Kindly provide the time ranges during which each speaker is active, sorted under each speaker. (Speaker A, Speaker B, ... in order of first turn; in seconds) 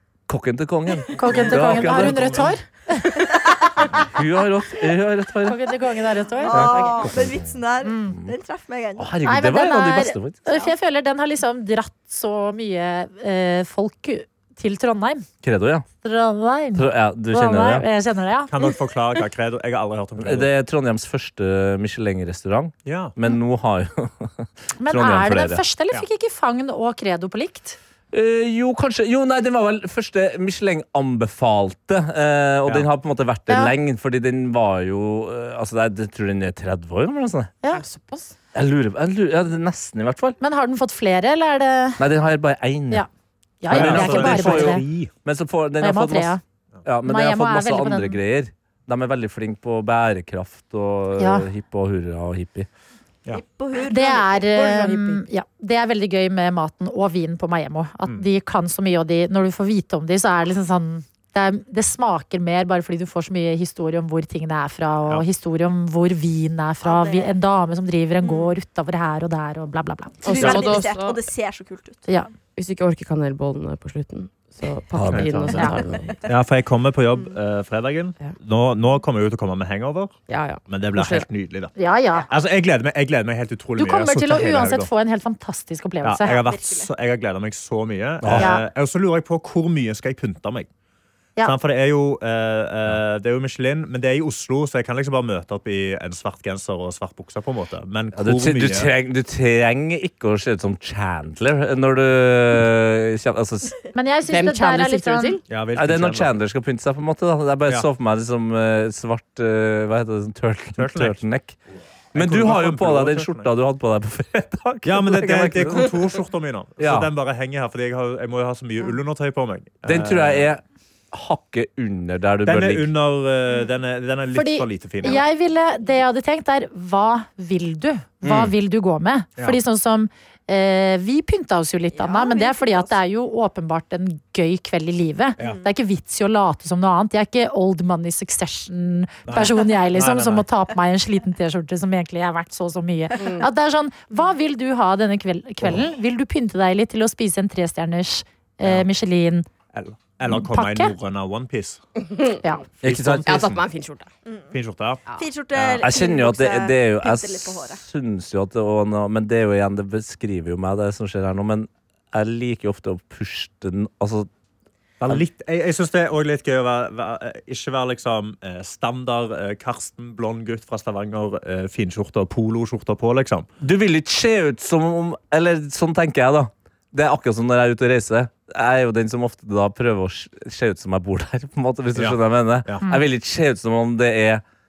Speaker A: 0.3-2.4, 4.0-5.6, 6.5-7.5, 9.0-10.4, 15.4-15.8, 16.7-17.8, 20.2-25.6, 28.1-37.5, 38.5-40.4, 42.0-43.0, 43.7-52.7, 74.9-76.0, 88.2-88.5, 98.1-103.8, 105.7-111.5, 112.1-115.9, 116.8-117.1, 119.8-122.9, 128.2-128.5, 152.8-153.5, 155.5-164.3, 173.6-184.4
Speaker B: 1.1-3.8, 5.4-7.1, 7.8-8.1, 9.2-15.2, 16.0-18.5, 24.8-27.8, 40.4-42.0, 43.6-44.8, 45.8-46.4, 47.0-48.2, 51.2-51.4, 53.9-70.8, 81.8-82.3, 83.8-86.4, 88.4-88.6, 103.9-105.4, 124.3-149.4, 150.3-150.9
Speaker C: 1.2-2.5, 18.5-20.5, 22.8-23.1, 43.7-45.1, 75.1-75.6, 76.2-81.7, 82.3-84.9, 86.0-90.7, 91.4-98.9, 105.5-106.3, 110.8-111.2, 112.1-113.5, 114.8-120.5, 122.4-125.2, 139.2-140.4, 149.7-151.8, 152.8-153.6, 154.5-155.0, 165.0-173.5, 181.9-182.8
Speaker D: 6.4-9.1, 53.3-54.5, 66.8-67.3, 68.2-68.5, 70.2-72.0, 75.8-76.3, 86.2-86.9, 131.9-132.9, 135.4-135.7, 154.2-154.5, 155.2-157.8
Speaker E: 37.7-38.3, 54.5-55.2, 70.2-71.2, 72.5-76.1, 80.3-81.2, 104.3-105.4, 143.2-143.4, 153.2-154.1